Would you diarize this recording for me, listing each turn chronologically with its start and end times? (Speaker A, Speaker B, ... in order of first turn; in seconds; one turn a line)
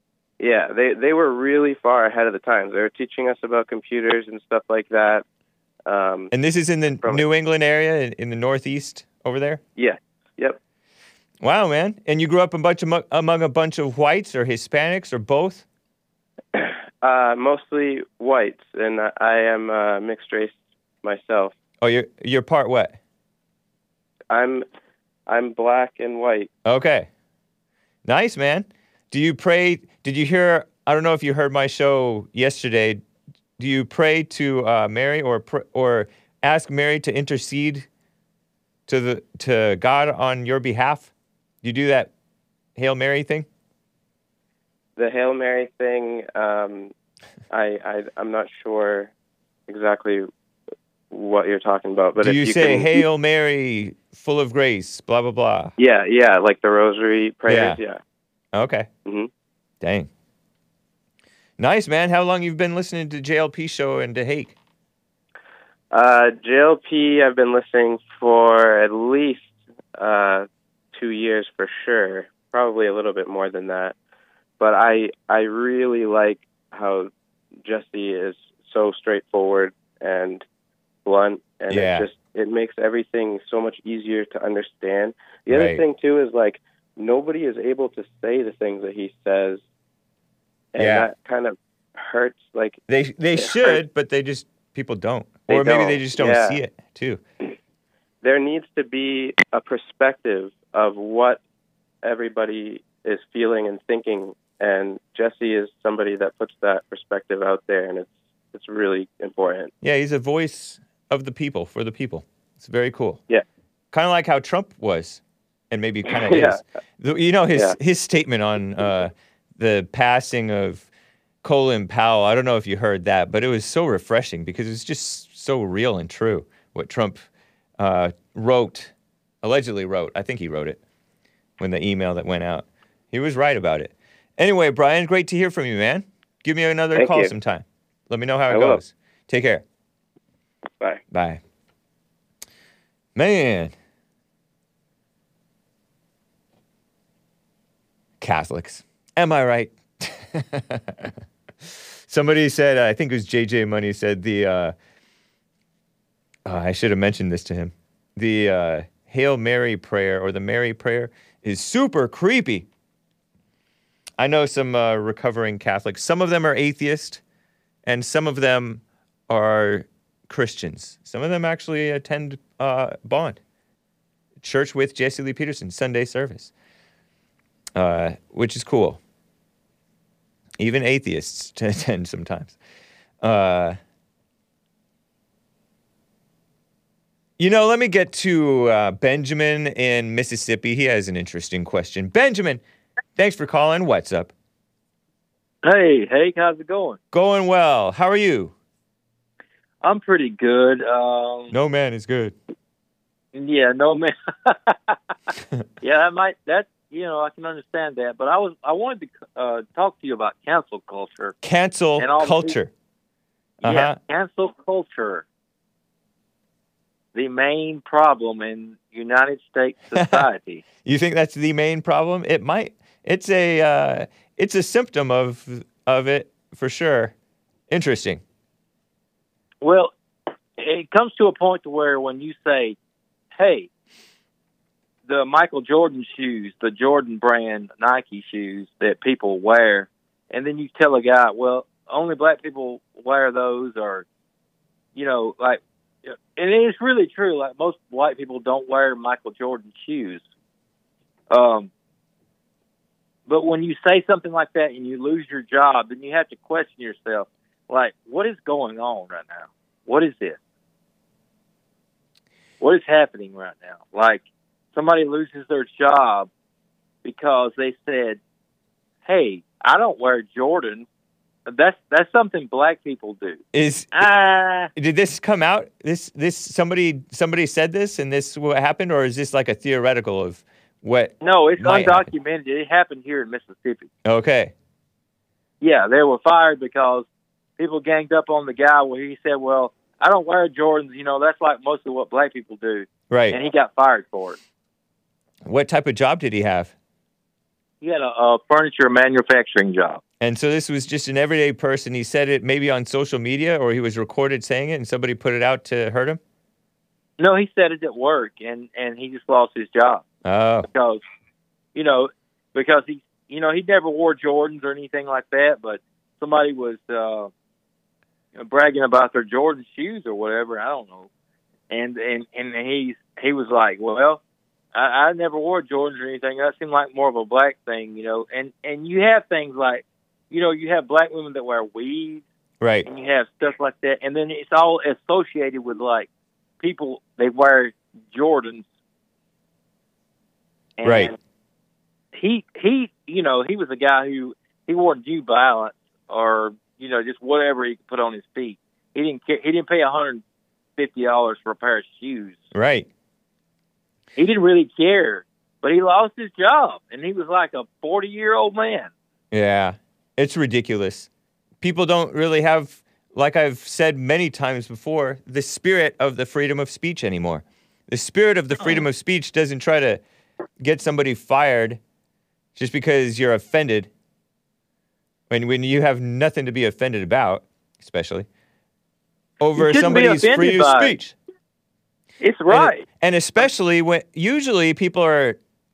Speaker A: 0.4-5.2
Speaker A: 5.8-6.3
Speaker B: 6.3-9.6
Speaker A: 9.8-10.6
Speaker B: 11.4-15.6
Speaker A: 16.5-21.5
Speaker B: 21.8-22.9
Speaker A: 24.3-24.6
Speaker A: 25.3-26.5
Speaker B: 26.6-27.1
Speaker B: 28.0-33.0
Speaker B: 33.6-37.9
Speaker B: 38.9-41.1
Speaker B: 41.6-42.1
Speaker B: 42.8-43.5
Speaker A: 45.0-46.9
Speaker A: 47.5-49.1
Speaker A: 49.7-50.3
Speaker A: 51.1-53.0
Speaker B: 52.2-55.7
Speaker A: 55.8-58.0
Speaker B: 57.5-57.8
Speaker B: 58.5-58.9
Speaker A: 59.0-59.3
Speaker B: 59.8-60.1
Speaker B: 61.6-64.5
Speaker A: 65.9-74.0
Speaker A: 74.6-77.1
Speaker A: 77.6-80.4
Speaker A: 81.0-89.6
Speaker B: 81.7-82.1
Speaker B: 85.5-85.8
Speaker A: 90.7-92.8
Speaker B: 90.8-91.1
Speaker B: 92.9-97.2
Speaker A: 93.3-93.8
Speaker A: 95.5-96.6
Speaker A: 98.2-101.4
Speaker A: 102.0-109.7
Speaker B: 109.8-113.2
Speaker B: 113.9-120.8
Speaker A: 116.1-116.6
Speaker B: 121.4-127.2
Speaker B: 127.8-128.9
Speaker B: 129.4-130.8
Speaker B: 131.6-139.6
Speaker A: 136.9-137.3
Speaker A: 138.5-138.8
Speaker B: 141.1-141.4
Speaker B: 143.2-143.7
Speaker B: 148.2-151.1
Speaker B: 152.1-154.7
Speaker B: 156.4-162.7
Speaker B: 164.2-167.2
Speaker B: 167.8-173.4
Speaker B: 174.4-176.5
Speaker B: 177.7-179.0
Speaker B: 180.6-182.6
Speaker B: 183.2-183.8
Speaker B: 187.4-192.6
Speaker B: 193.2-194.3
Speaker C: 195.6-197.0
Speaker B: 197.1-198.5
Speaker C: 199.8-201.5
Speaker B: 201.5-202.3
Speaker C: 203.3-204.9
Speaker C: 205.8-211.3
Speaker B: 211.4-212.7
Speaker C: 212.0-212.5
Speaker B: 213.6-214.0
Speaker C: 213.6-215.2
Speaker C: 217.1-220.6
Speaker B: 219.9-220.2
Speaker B: 220.8-227.1
Speaker B: 227.7-228.2
Speaker C: 229.6-229.9
Speaker C: 230.6-232.8
Speaker C: 233.3-233.7
Speaker C: 235.1-244.0
Speaker C: 244.9-250.2
Speaker C: 251.3-251.7
Speaker C: 253.3-260.4
Speaker C: 262.6-264.2
Speaker C: 264.7-266.3
Speaker C: 267.0-268.2
Speaker C: 269.0-270.9
Speaker C: 271.5-273.4
Speaker B: 273.5-273.9
Speaker C: 273.9-274.7
Speaker B: 274.8-282.1
Speaker C: 281.2-283.9
Speaker B: 284.1-284.5
Speaker C: 285.6-287.1
Speaker C: 287.6-294.4
Speaker B: 293.1-293.4
Speaker B: 295.4-296.7
Speaker C: 297.8-300.0
Speaker B: 300.2-306.2
Speaker C: 307.2-310.0
Speaker B: 310.2-310.7
Speaker C: 310.7-311.0
Speaker C: 311.7-317.3
Speaker C: 318.3-321.1
Speaker C: 321.7-324.2
Speaker C: 324.7-332.2
Speaker B: 332.6-332.9
Speaker C: 332.9-336.1
Speaker C: 336.6-338.6
Speaker C: 340.8-341.1
Speaker B: 340.8-341.1
Speaker C: 342.1-350.2
Speaker C: 350.8-352.4
Speaker B: 352.5-352.9
Speaker C: 354.2-358.9
Speaker B: 359.3-361.1
Speaker B: 361.6-370.0
Speaker B: 370.6-371.8
Speaker B: 372.6-373.9
Speaker B: 375.3-378.3
Speaker B: 379.4-381.1
Speaker C: 379.6-381.0
Speaker C: 382.2-382.8
Speaker B: 382.5-385.4